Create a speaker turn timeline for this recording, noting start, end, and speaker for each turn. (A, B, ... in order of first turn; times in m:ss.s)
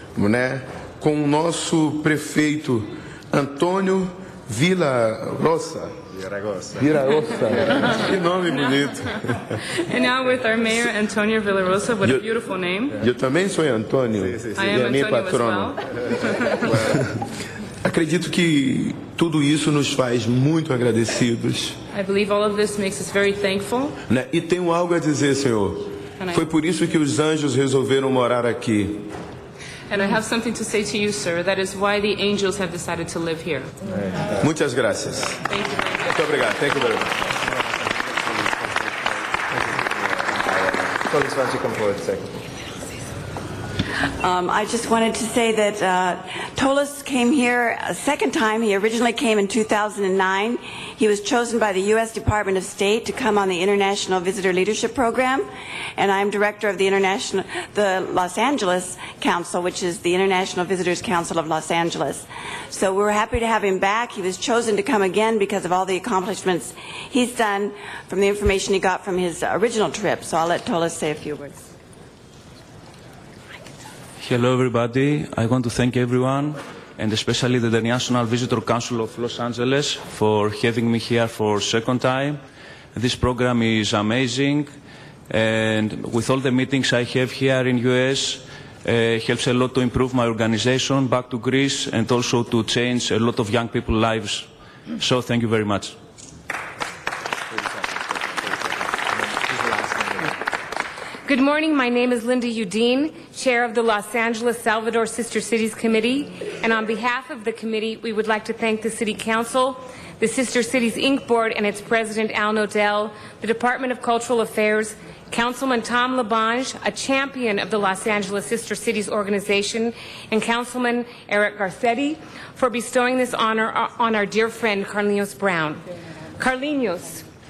0:00.2-0:05.9 A
0:06.7-0:09.6 A
0:09.7-0:12.9 B
0:13.0-0:15.8 A
0:14.6-0:16.9 B
0:17.8-0:21.8 A
0:21.9-0:24.0 B
0:24.1-0:29.1 A
0:29.9-0:33.7 B
0:34.4-0:35.4 A
0:35.5-0:36.1 B
0:36.1-0:37.1 A
0:40.7-0:42.4 C
0:44.2-1:11.7 D
1:14.2-1:22.4 E
1:22.9-1:24.7 E
1:25.3-1:34.5 E
1:35.0-1:35.9 E
1:39.5-1:40.3 C
1:41.3-2:05.8 F
2:06.4-2:07.2 F